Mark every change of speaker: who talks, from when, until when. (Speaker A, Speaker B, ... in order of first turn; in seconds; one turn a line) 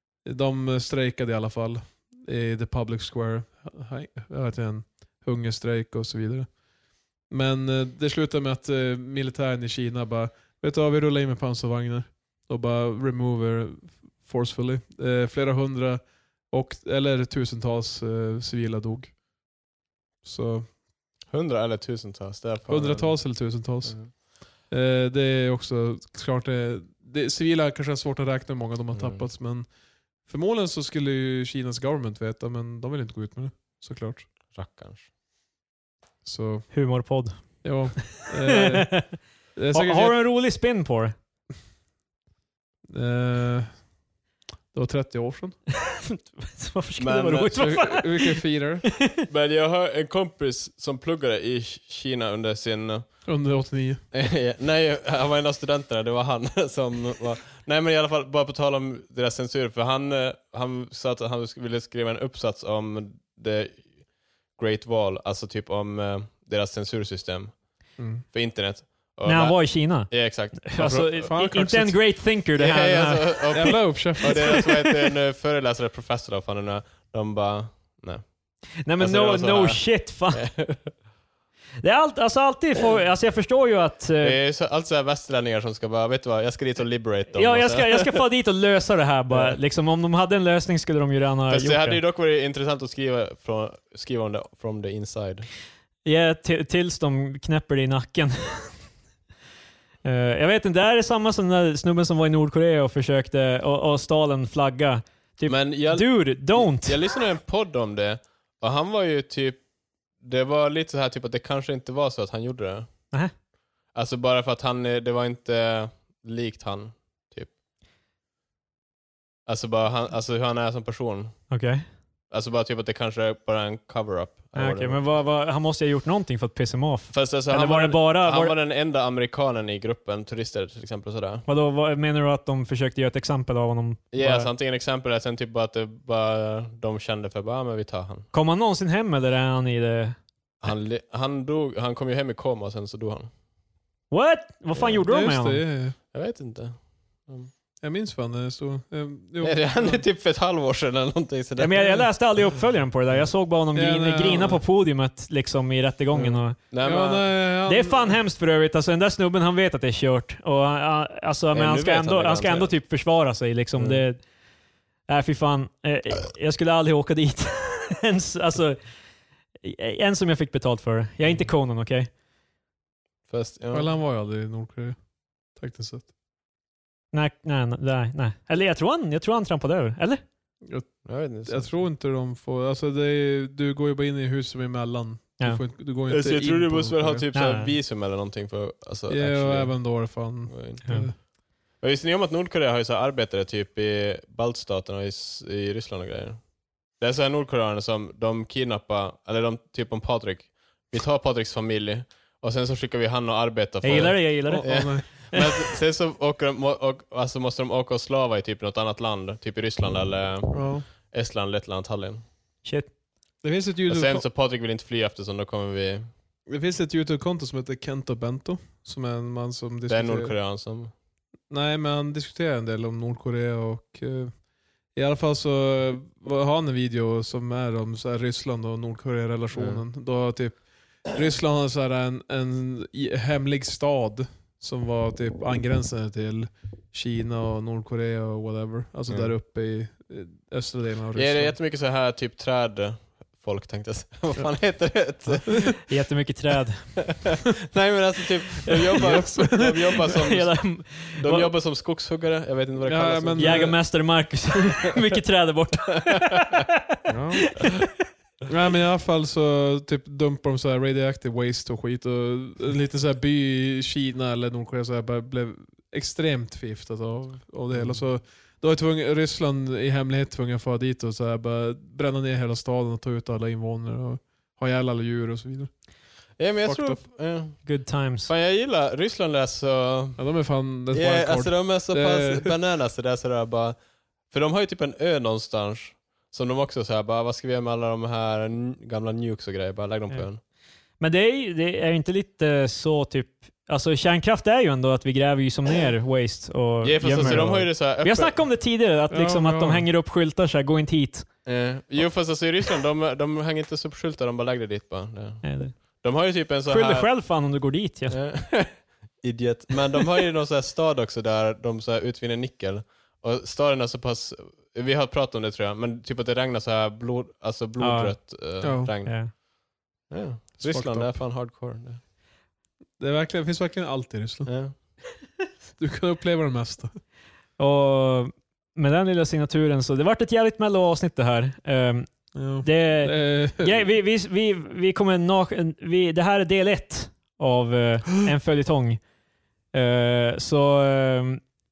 Speaker A: 0.2-6.6
Speaker A: 7.2-19.2
Speaker A: 20.2-20.7
Speaker B: 21.2-24.1
Speaker A: 22.7-34.3
Speaker B: 28.9-29.3
Speaker B: 34.5-35.1
Speaker A: 36.2-36.9
Speaker C: 36.7-41.1
Speaker A: 37.4-40.2
Speaker A: 42.9-43.9
Speaker A: 44.7-45.6
Speaker C: 45.9-49.2
Speaker B: 47.0-47.6
Speaker A: 47.5-48.9
Speaker B: 49.2-53.2
Speaker A: 53.2-54.0
Speaker B: 54.1-63.9
Speaker B: 64.5-67.6
Speaker A: 68.0-68.2
Speaker B: 68.3-71.2
Speaker C: 69.2-74.9
Speaker A: 71.1-72.0
Speaker B: 72.5-78.3
Speaker A: 73.5-74.6
Speaker C: 78.8-80.5
Speaker B: 78.9-80.9
Speaker C: 81.8-84.4
Speaker B: 84.2-88.2
Speaker C: 87.3-92.0
Speaker B: 89.3-89.6
Speaker B: 91.5-95.5
Speaker C: 96.0-98.8
Speaker C: 100.0-107.0
Speaker B: 105.5-109.6
Speaker B: 110.2-113.0
Speaker B: 113.9-117.5
Speaker B: 119.5-121.5
Speaker C: 121.5-121.8
Speaker B: 122.3-125.0
Speaker C: 124.5-128.5
Speaker B: 127.1-131.4
Speaker C: 131.4-134.5
Speaker B: 134.1-138.3
Speaker C: 138.3-140.2
Speaker B: 140.6-143.3
Speaker C: 144.1-145.6
Speaker A: 145.1-146.0
Speaker B: 146.1-147.5
Speaker A: 147.8-150.0
Speaker B: 149.4-151.9
Speaker C: 151.6-156.6
Speaker A: 153.7-154.6
Speaker A: 156.1-158.2
Speaker B: 156.7-157.3
Speaker C: 157.7-164.2
Speaker B: 161.5-162.8
Speaker B: 163.8-164.0
Speaker C: 165.1-168.8
Speaker C: 169.6-172.1
Speaker B: 173.3-173.9
Speaker A: 173.7-176.1
Speaker C: 177.1-180.2
Speaker A: 180.7-187.2
Speaker B: 181.0-181.8
Speaker B: 186.1-212.2
Speaker C: 187.3-187.7
Speaker A: 189.1-191.2
Speaker C: 203.8-205.5
Speaker A: 204.5-205.1
Speaker A: 210.5-210.8
Speaker C: 212.6-212.9
Speaker A: 213.4-214.2
Speaker B: 213.9-216.1
Speaker A: 216.5-220.3
Speaker B: 219.9-220.9
Speaker A: 221.5-224.4
Speaker A: 224.9-241.5
Speaker B: 229.5-229.8
Speaker B: 241.1-245.8
Speaker A: 245.3-245.8
Speaker C: 245.8-247.1
Speaker B: 247.1-253.8
Speaker A: 249.0-249.8
Speaker C: 250.1-251.5
Speaker A: 252.8-253.8
Speaker C: 253.4-256.5
Speaker A: 257.1-257.4
Speaker A: 258.5-275.7
Speaker B: 267.7-268.1
Speaker B: 276.4-280.2
Speaker A: 276.6-277.0
Speaker C: 277.6-278.3
Speaker A: 280.2-282.5
Speaker B: 280.9-283.8
Speaker B: 284.3-290.4
Speaker C: 291.0-301.3
Speaker B: 296.8-298.4
Speaker A: 299.1-299.9
Speaker B: 301.4-307.1
Speaker C: 305.4-306.0
Speaker C: 306.6-308.2
Speaker B: 308.1-319.4
Speaker C: 317.8-318.2
Speaker A: 318.6-318.9
Speaker C: 319.1-319.3
Speaker B: 320.1-322.0
Speaker A: 320.6-321.2
Speaker A: 323.0-324.5
Speaker B: 324.4-324.7
Speaker A: 325.8-326.9
Speaker C: 327.6-339.0
Speaker A: 332.3-333.9
Speaker C: 339.7-341.4